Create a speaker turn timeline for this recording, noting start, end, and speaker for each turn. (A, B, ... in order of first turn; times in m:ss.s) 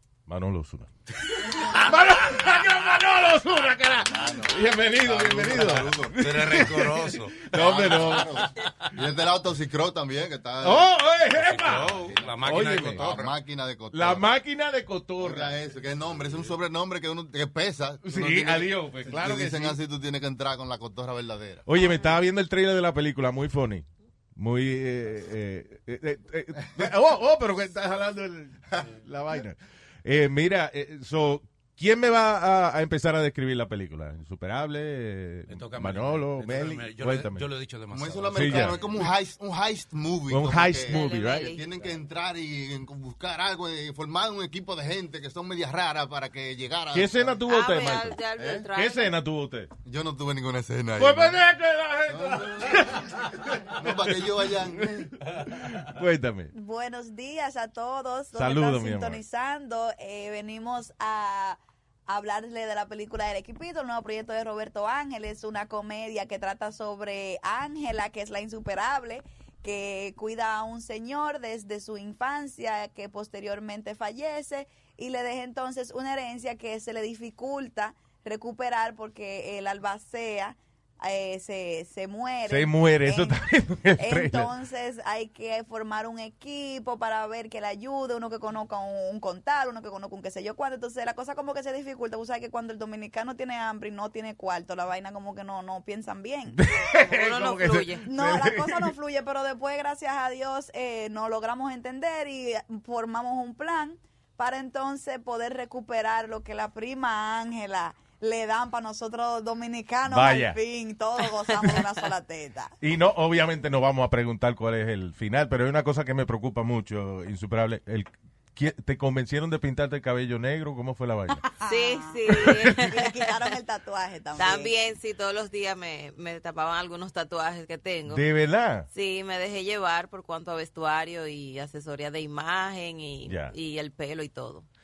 0:00.3-0:08.5 A
0:04.0-0:06.4 B
0:06.2-0:07.4 C
0:07.5-0:11.1 B
0:10.6-0:13.2 A
0:11.3-0:13.4 C
0:11.6-0:14.3 B
0:13.9-0:15.6 A
0:15.2-0:21.6 B
0:18.0-0:19.8 A
0:21.6-0:37.5 A
0:35.5-0:38.8 C
0:37.9-0:47.4 B
0:38.3-0:39.0 A
0:40.3-0:41.5 A
0:40.8-0:41.6 D
0:46.9-0:49.7 A
0:47.4-0:49.2 D
0:48.4-0:48.7 B
0:49.8-0:51.5 B
0:51.0-0:53.2 A
0:52.1-0:55.1 B
0:55.2-0:56.5 A
0:56.5-1:36.6 E
0:58.3-0:59.2 A
1:22.5-1:24.5 A
1:36.6-1:38.9 A
1:37.0-1:38.1 D
1:38.0-1:52.7 E
1:50.1-1:50.6 A
1:51.5-1:51.8 D
1:52.8-2:01.5 A
2:01.3-2:04.8 E
2:01.7-2:03.3 D
2:02.4-2:02.8 A
2:04.4-2:08.3 D
2:08.1-2:08.9 A
2:08.9-2:14.6 D
2:13.2-2:13.5 A